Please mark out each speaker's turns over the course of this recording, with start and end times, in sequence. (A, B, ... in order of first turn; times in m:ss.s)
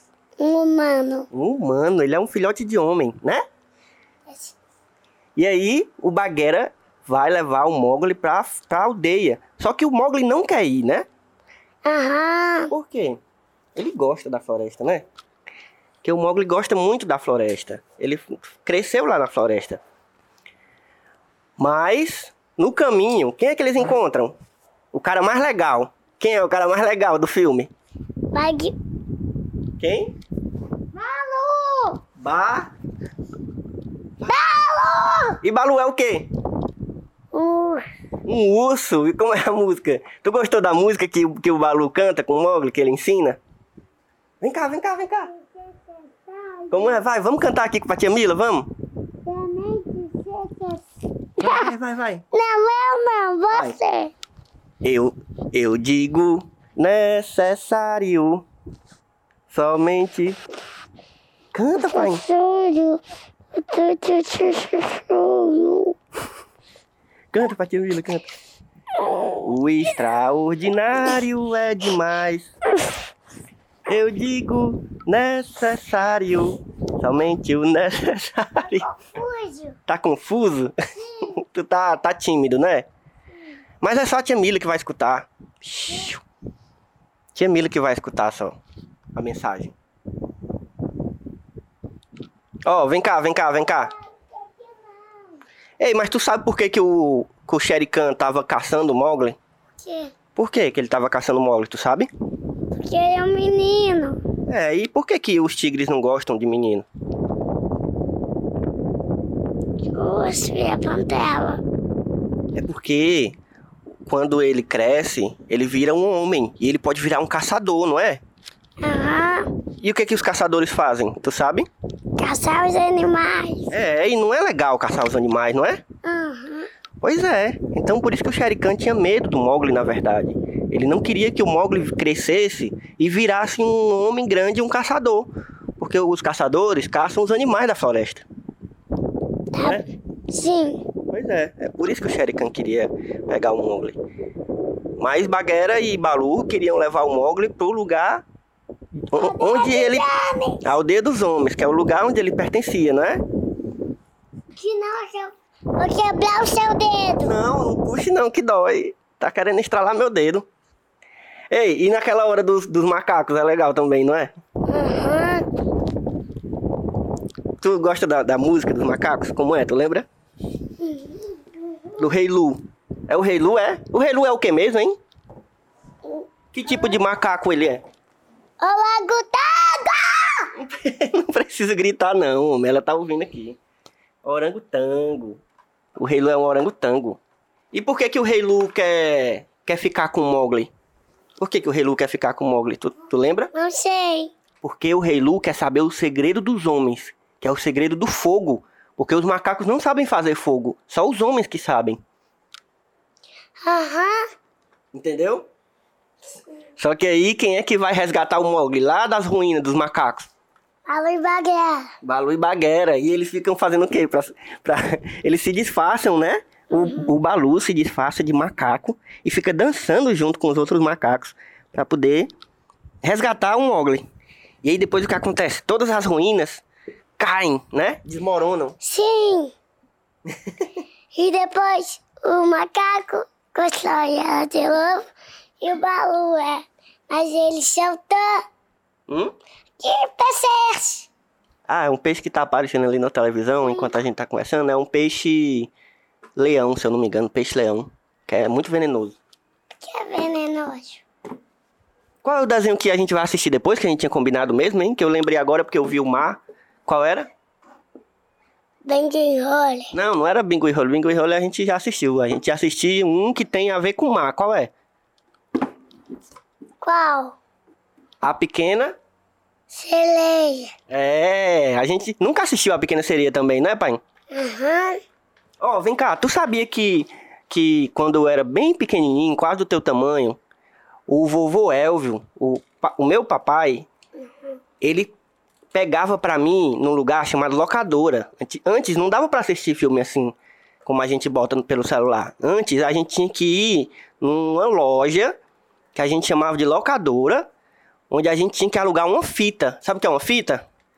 0:00.4-0:01.3 A
0:01.3-0:03.4 B
0:04.3-0:04.6 A
0:05.4-0:11.0 B
0:11.8-0:12.7 A
0:12.7-0:13.2 B
0:13.7-0:15.0 B
0:16.0-0:19.8 B
0:21.6-0:24.4 B
0:24.9-0:27.7 B
0:28.3-0:28.7 A
0:29.8-0:30.1 B
0:30.9-0:32.0 A
0:32.2-0:32.7 B
0:34.2-0:35.4 A
0:35.4-0:36.3 B
0:37.3-0:37.8 A
0:38.2-0:43.4 B
0:44.4-0:45.3 B
0:45.3-0:47.0 A
0:46.7-0:48.7 B
0:49.2-0:50.8 A
0:51.4-0:52.2 B
0:51.4-0:51.7 A
0:52.3-0:54.1 A
0:53.5-0:53.8 B
0:54.8-0:58.4 B
0:59.5-1:00.4 B
1:01.5-1:02.2 B
1:01.8-1:03.0 A
1:03.5-1:05.9 A
1:07.3-1:08.3 B
1:09.3-1:12.5 B
1:13.9-1:18.9 B
1:18.6-1:19.8 A
1:19.9-1:20.8 B
1:21.0-1:21.4 A
1:21.3-1:22.9 B
1:23.8-1:26.2 B
1:27.3-1:28.6 B
1:29.1-1:29.7 B
1:32.6-1:33.9 B
1:34.3-1:35.2 A
1:35.8-1:39.4 B
1:39.8-1:40.1 A
1:40.4-1:42.1 B
1:42.8-1:44.2 A
1:44.5-1:46.8 B
1:49.9-1:51.6 A
1:52.5-1:53.4 B
1:54.0-1:58.2 B
1:58.8-1:59.5 A
1:59.8-2:01.7 B
2:02.2-2:03.7 A
2:03.7-2:05.8 B
2:06.0-2:06.7 A
2:07.0-2:18.2 B
2:19.5-2:20.8 A
2:19.6-2:19.9 B
2:21.1-2:24.0 B
2:25.0-2:28.2 B
2:29.1-2:30.0 B
2:29.1-2:30.6 A
2:30.6-2:33.2 B
2:34.6-2:37.3 A
2:37.2-2:40.4 B
2:41.5-2:44.3 B
2:44.7-2:45.4 A
2:47.6-2:50.1 B
2:50.8-2:52.0 A
2:52.0-2:55.0 B
2:56.5-2:57.8 B
2:58.6-3:00.5 A
3:00.6-3:03.6 B
3:04.2-3:05.4 B
3:06.0-3:07.2 B
3:07.7-3:10.7 B
3:11.4-3:13.5 B
3:13.5-3:14.3 A
3:14.6-3:22.0 B
3:23.6-3:24.2 A
3:24.9-3:25.5 B
3:26.8-3:30.3 B
3:30.9-3:31.9 A
3:32.0-3:42.3 B
3:36.7-3:37.1 A
3:43.0-3:44.0 B
3:44.6-3:46.6 B
3:47.2-3:48.8 B
3:48.8-3:49.5 A
3:50.3-3:50.6 B
3:51.1-3:55.0 A
3:55.6-3:58.4 A
3:59.1-3:59.3 B
3:59.8-4:01.1 A
4:01.7-4:05.7 B
4:03.6-4:03.9 A
4:06.4-4:09.2 B
4:09.8-4:11.0 A
4:12.2-4:17.3 B
4:18.8-4:19.9 A
4:19.9-4:24.7 B
4:26.8-4:27.4 A
4:28.2-4:29.0 B
4:29.7-4:30.7 A
4:30.9-4:34.0 B
4:34.3-4:35.0 A
4:35.6-4:40.4 B
4:41.1-4:43.9 B
4:44.8-4:45.1 B
4:45.7-4:55.3 B
4:55.9-4:57.5 B
4:58.1-5:00.6 B